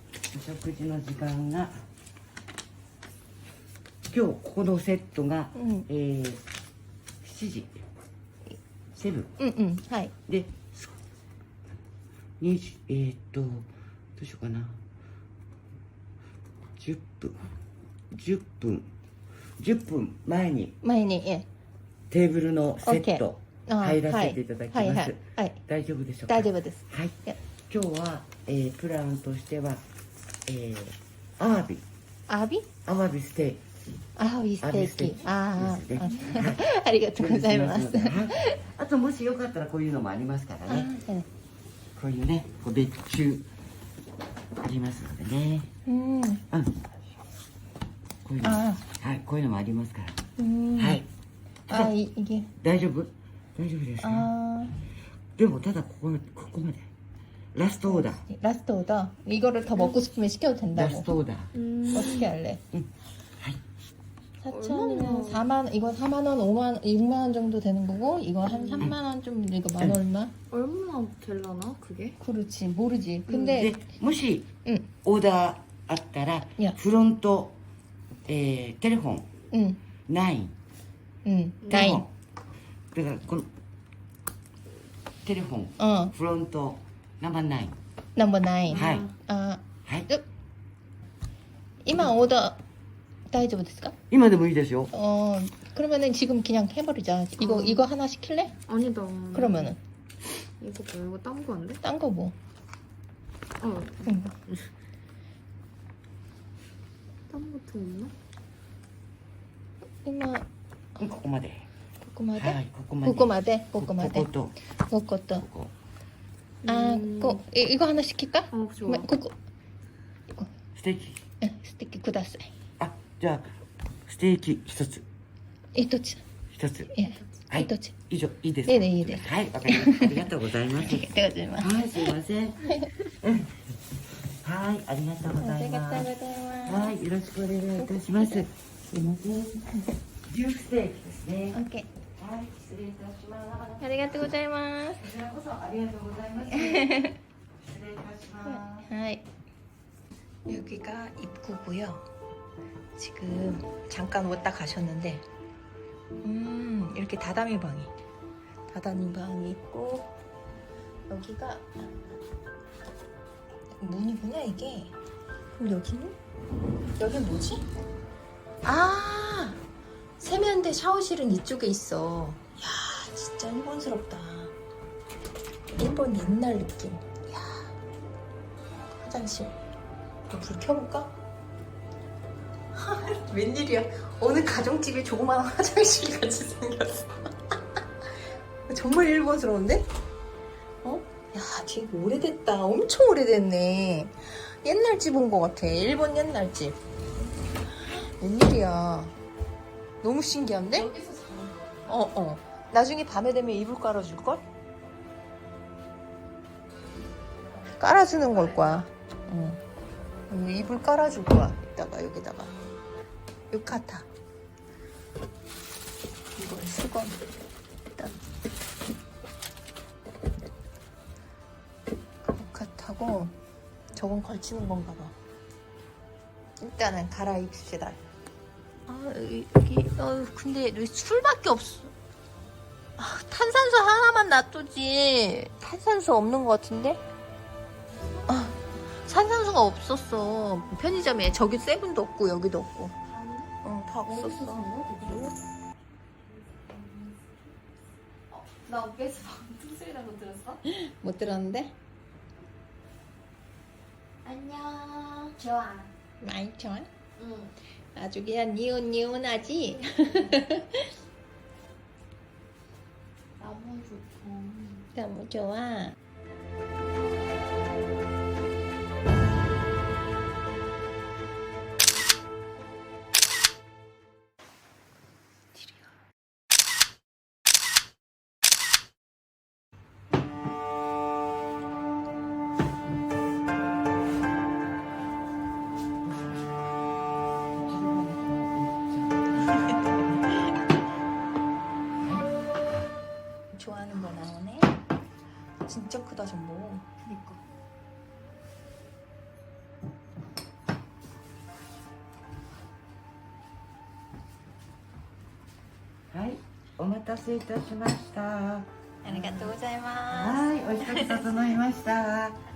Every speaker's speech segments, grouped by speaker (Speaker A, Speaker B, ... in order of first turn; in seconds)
Speaker A: 0.3-1.9, 4.1-6.4, 7.2-7.8, 8.9-9.3, 10.3-10.9, 12.4-14.8, 16.8-17.5, 18.1-18.9, 19.6-20.8, 22.1-27.2, 27.7-29.8, 30.5-31.8, 32.9-33.7, 34.6-36.6, 37.1-40.9, 42.0-43.5, 44.6-45.7, 46.5-46.8, 48.2-50.2, 50.8-51.1, 51.7-51.9, 52.6-54.3, 55.4-56.9, 57.5-58.2, 60.7-61.5, 62.7-63.6, 73.5-74.5, 75.0-77.6, 78.3-79.3, 80.1-80.5, 81.7-82.1, 82.9-83.5, 85.2-87.8, 88.7-89.1, 94.1-94.9, 111.0-111.7, 112.4-114.5, 115.3-115.7, 120.8-121.2, 122.8-123.5, 124.1-125.1, 126.5-126.9, 127.5-136.1, 136.7-139.7, 140.3-141.6, 142.2-144.4, 144.9-147.0, 147.6-148.9, 286.0-286.7, 287.5-290.3, 292.0-292.3, 306.1-309.5, 310.1-312.4
Speaker B: 5.5-5.9, 9.4-10.1, 20.8-21.5, 22.8-25.6, 26.3-27.4, 32.3-32.7, 34.2-38.6, 40.7-41.3, 45.9-46.4, 48.4-48.8, 50.4-51.0, 51.7-52.5, 54.0-54.7, 57.9-61.1, 61.9-62.6, 64.4-70.3, 72.2-73.8, 79.5-79.8, 81.2-82.1, 85.8-86.1, 88.2-90.2, 91.8-92.6, 93.3-94.0, 94.9-98.6, 99.3-99.8, 101.8-102.4, 104.1-104.4, 110.0-110.5, 112.0-115.5, 116.7-119.4, 121.4-122.5, 125.7-126.2, 126.9-128.0, 128.7-132.1, 135.4-137.0, 137.8-138.4, 141.5-141.9, 143.8-145.1, 146.5-147.2, 148.5-149.2, 150.5-152.1, 153.0-155.3, 156.2-157.9, 158.7-160.1, 161.1-161.9, 163.8-164.9, 165.5-166.2, 167.0-167.7, 168.6-169.6, 170.2-174.5, 175.7-177.7, 179.0-179.6, 180.3-181.2, 182.8-187.3, 188.7-189.9, 190.8-196.8, 197.8-199.2, 200.0-200.9, 201.9-204.4, 207.8-209.6, 210.3-212.6, 213.5-214.1, 216.4-217.2, 222.2-223.3, 223.9-225.2, 226.6-228.0, 228.9-231.9, 233.0-237.0, 238.3-243.0, 243.6-245.3, 250.7-251.8, 256.2-256.9, 257.9-260.9, 264.9-266.0, 275.5-275.9, 293.5-294.8, 295.6-297.4, 309.0-311.4
Speaker C: 61.5-62.3, 64.5-65.4, 68.5-68.9, 70.5-72.2, 81.6-82.0, 88.7-89.1, 97.4-97.9, 98.7-99.7, 100.6-101.8, 103.6-104.6, 107.3-108.1, 116.6-117.4, 118.5-119.1, 200.7-202.0, 243.1-245.3, 246.5-247.3, 248.3-250.6, 254.2-255.9, 257.2-257.6, 263.4-264.9